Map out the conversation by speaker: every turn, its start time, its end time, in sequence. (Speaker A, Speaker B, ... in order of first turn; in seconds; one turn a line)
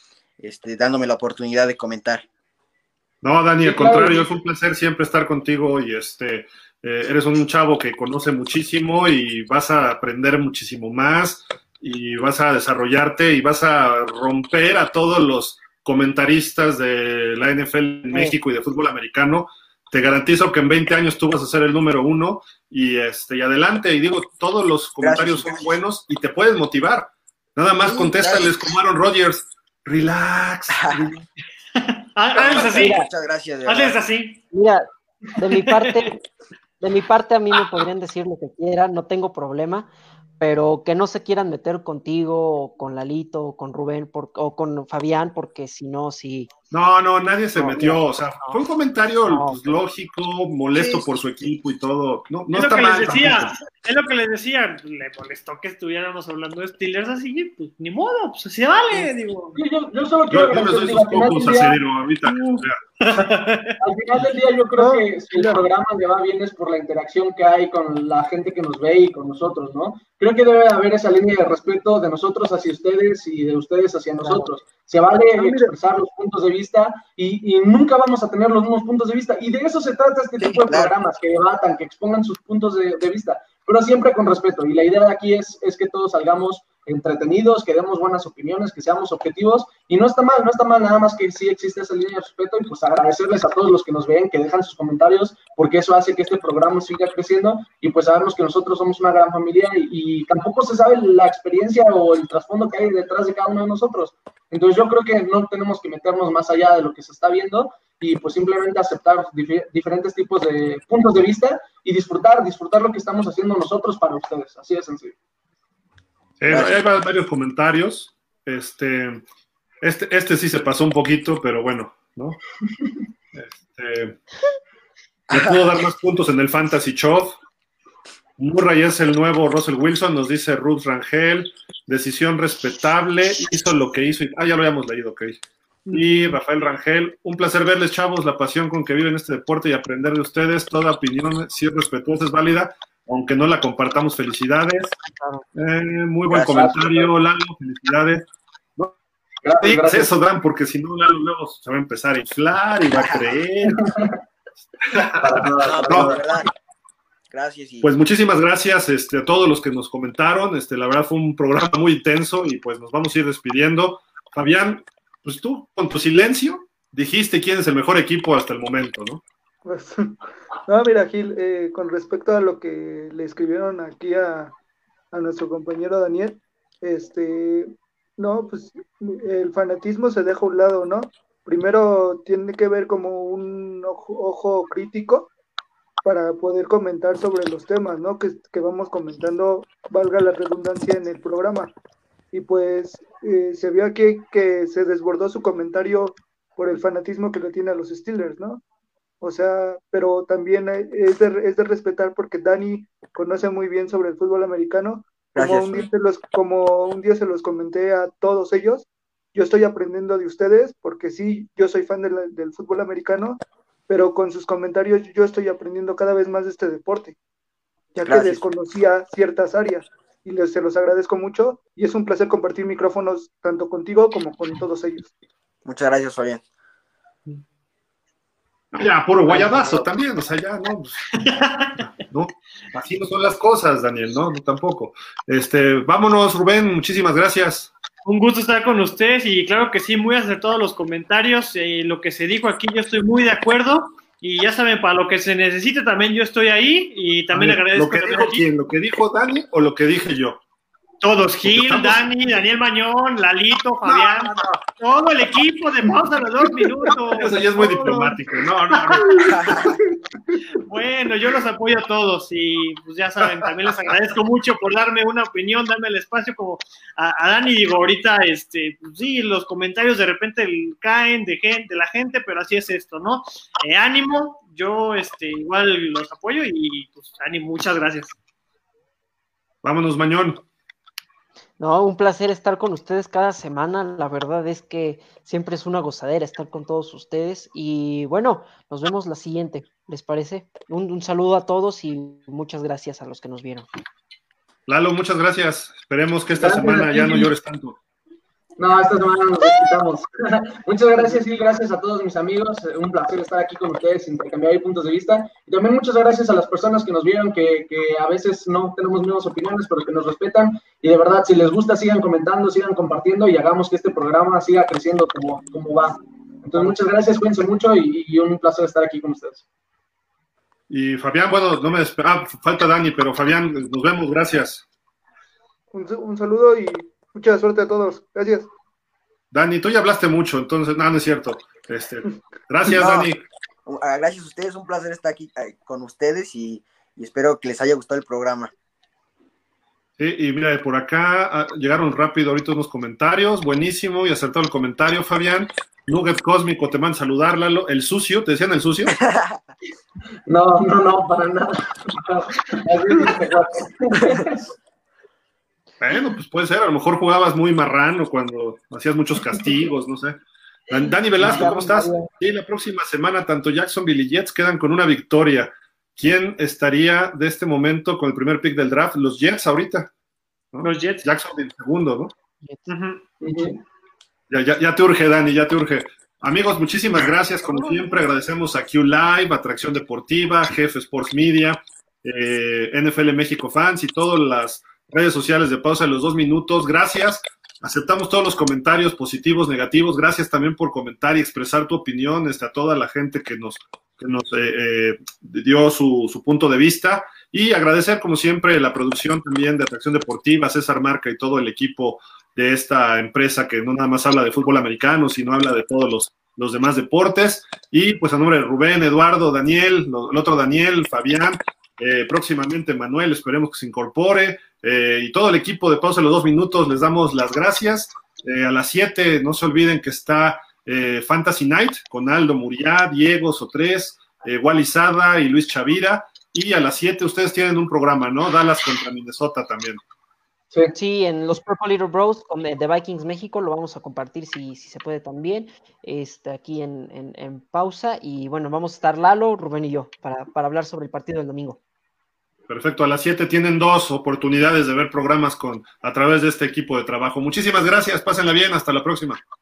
Speaker A: 0.4-2.2
Speaker B: 3.2-31.1
Speaker C: 3.6-4.3
Speaker A: 25.0-25.8
Speaker A: 27.8-28.7
Speaker A: 30.7-31.1
Speaker D: 31.8-33.0
Speaker A: 32.3-34.0
Speaker E: 32.5-33.1
Speaker D: 33.6-34.4
Speaker E: 34.5-34.8
Speaker E: 35.4-36.2
Speaker D: 35.6-36.1
Speaker E: 36.8-46.5
Speaker B: 46.7-53.5
Speaker E: 47.5-48.6
Speaker E: 49.3-49.8
Speaker A: 50.7-51.0
Speaker D: 52.5-59.6
Speaker C: 59.5-61.8
Speaker B: 60.3-62.8
Speaker D: 62.4-63.8
Speaker C: 63.8-115.1
Speaker F: 64.8-65.6
Speaker F: 75.4-75.7
Speaker A: 80.4-80.9
Speaker B: 116.4-119.2
Speaker A: 116.5-116.8
Speaker B: 119.8-122.4
Speaker B: 123.3-124.2
Speaker B: 125.3-127.4
Speaker B: 128.4-135.3
Speaker D: 135.9-136.3
Speaker B: 135.9-144.9
Speaker B: 145.5-148.2
Speaker A: 146.3-146.9
Speaker C: 146.4-147.1
Speaker C: 149.4-150.1
Speaker B: 149.6-153.8
Speaker A: 152.9-153.2
Speaker C: 153.6-154.2
Speaker B: 154.8-156.2
Speaker C: 155.0-156.4
Speaker A: 155.6-156.5
Speaker A: 157.3-157.9
Speaker B: 157.8-169.2
Speaker F: 169.6-174.5
Speaker F: 175.1-185.3
Speaker F: 186.0-191.7
Speaker F: 192.3-198.6
Speaker F: 199.2-217.2
Speaker A: 205.3-205.9
Speaker F: 217.9-225.1
Speaker A: 218.0-218.4
Speaker A: 225.6-226.4
Speaker B: 228.7-231.0
Speaker A: 229.3-229.9
Speaker D: 231.2-231.8
Speaker B: 231.8-237.7
Speaker D: 238.0-248.4
Speaker B: 247.3-250.4
Speaker D: 251.0-258.2
Speaker B: 251.4-252.0
Speaker B: 253.8-254.6
Speaker B: 257.1-259.6
Speaker D: 258.7-259.1
Speaker A: 259.3-259.7
Speaker D: 260.6-278.1
Speaker B: 263.2-263.5
Speaker B: 279.6-280.4
Speaker E: 281.6-293.7
Speaker B: 294.7-297.8
Speaker C: 296.3-297.3
Speaker C: 298.6-319.4
Speaker B: 320.7-324.6
Speaker F: 325.7-328.5
Speaker B: 329.3-333.2
Speaker A: 332.6-333.1
Speaker A: 333.6-338.5
Speaker B: 340.0-348.9
Speaker A: 348.9-349.4
Speaker C: 350.2-354.5
Speaker B: 355.8-369.9
Speaker C: 361.2-362.1
Speaker B: 370.5-372.1
Speaker D: 370.6-371.0
Speaker D: 372.7-373.0
Speaker C: 373.2-373.6
Speaker B: 374.3-429.8
Speaker E: 430.7-441.6
Speaker B: 442.5-449.2